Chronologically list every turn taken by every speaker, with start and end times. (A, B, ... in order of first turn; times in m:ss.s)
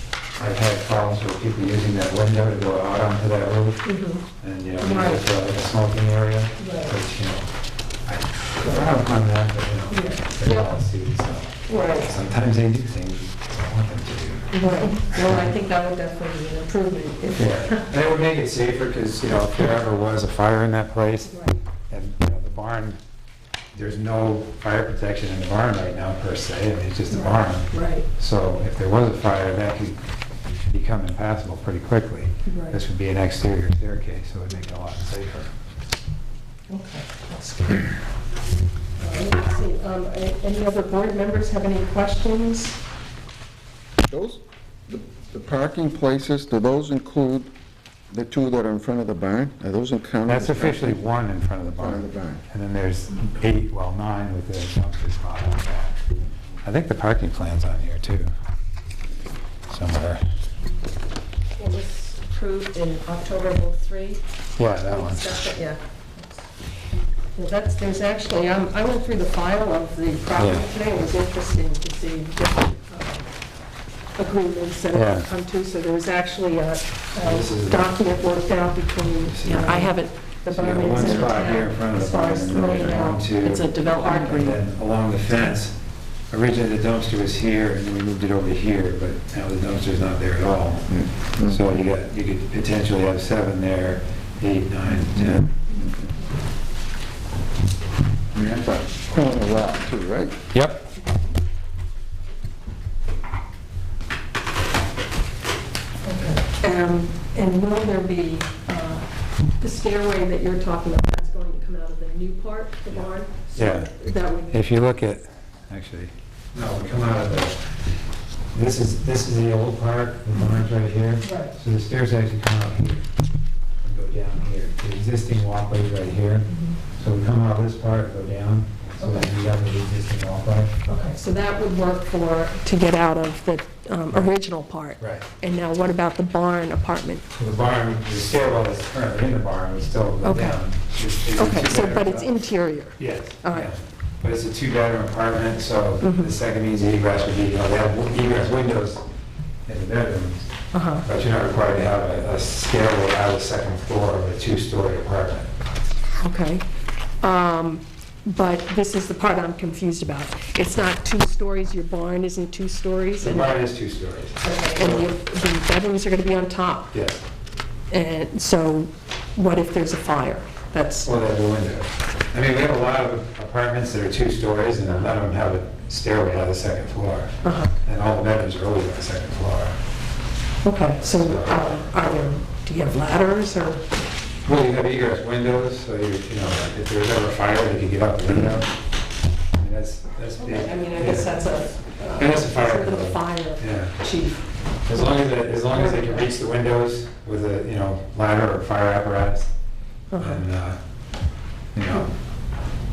0:00.4-0:03.8 A
0:03.8-0:04.2 B
0:04.4-0:07.5 A
0:04.8-0:05.2 B
0:06.6-0:06.9 B
0:08.1-0:14.6 A
0:09.9-0:10.8 B
0:11.7-0:12.2 B
0:14.5-0:17.9 B
0:15.1-0:15.5 A
0:17.4-0:21.4 A
0:21.3-0:21.6 B
0:21.9-0:23.0 A
0:23.7-0:30.0 A
0:27.1-0:28.1 B
0:30.6-0:35.5 A
0:32.5-0:32.8 B
0:36.7-0:38.0 B
0:39.0-0:42.8 B
0:44.1-0:47.5 C
0:48.1-0:51.0 C
0:50.3-0:56.0 A
0:51.7-0:52.4 C
0:56.6-0:58.3 A
0:59.7-1:00.2 A
1:01.6-1:04.2 B
1:04.6-1:05.3 A
1:04.8-1:06.4 B
1:07.4-1:13.3 B
1:10.4-1:10.7 A
1:14.2-1:24.6 B
1:14.9-1:15.3 A
1:17.2-1:17.9 A
1:19.3-1:19.9 A
1:20.5-1:25.7 A
1:26.3-1:35.5 A
1:35.2-1:35.5 C
1:38.3-1:40.4 C
1:40.5-1:40.9 A
1:46.0-1:49.1 B
1:49.6-1:54.6 B
1:52.9-1:53.9 A
1:54.5-1:57.6 A
1:58.5-2:03.1 A
2:01.2-2:01.6 B
2:03.8-2:10.7 A
2:06.5-2:06.8 B
2:09.0-2:09.3 B
2:10.9-2:17.2 B
2:15.0-2:15.3 A
2:17.4-2:22.3 A
2:20.2-2:20.6 B
2:21.4-2:23.7 B
2:23.0-2:29.0 A
2:26.0-2:26.3 B
2:29.7-2:30.5 A
2:30.7-2:31.1 B
2:31.0-2:35.5 A
2:36.1-2:36.7 B
2:37.2-2:43.6 B
2:43.2-2:45.1 A
2:44.4-2:46.9 B
2:46.9-2:47.2 A
2:47.9-2:51.1 B
2:51.0-2:59.8 A
2:57.4-2:57.7 B
3:00.6-3:03.8 B
3:01.1-3:01.7 A
3:04.5-3:08.7 A
3:09.6-3:11.3 A
3:10.4-3:16.3 B
3:12.2-3:14.0 A
3:14.9-3:19.5 A
3:20.1-3:20.4 B
3:20.2-3:20.8 A
3:21.8-3:22.1 A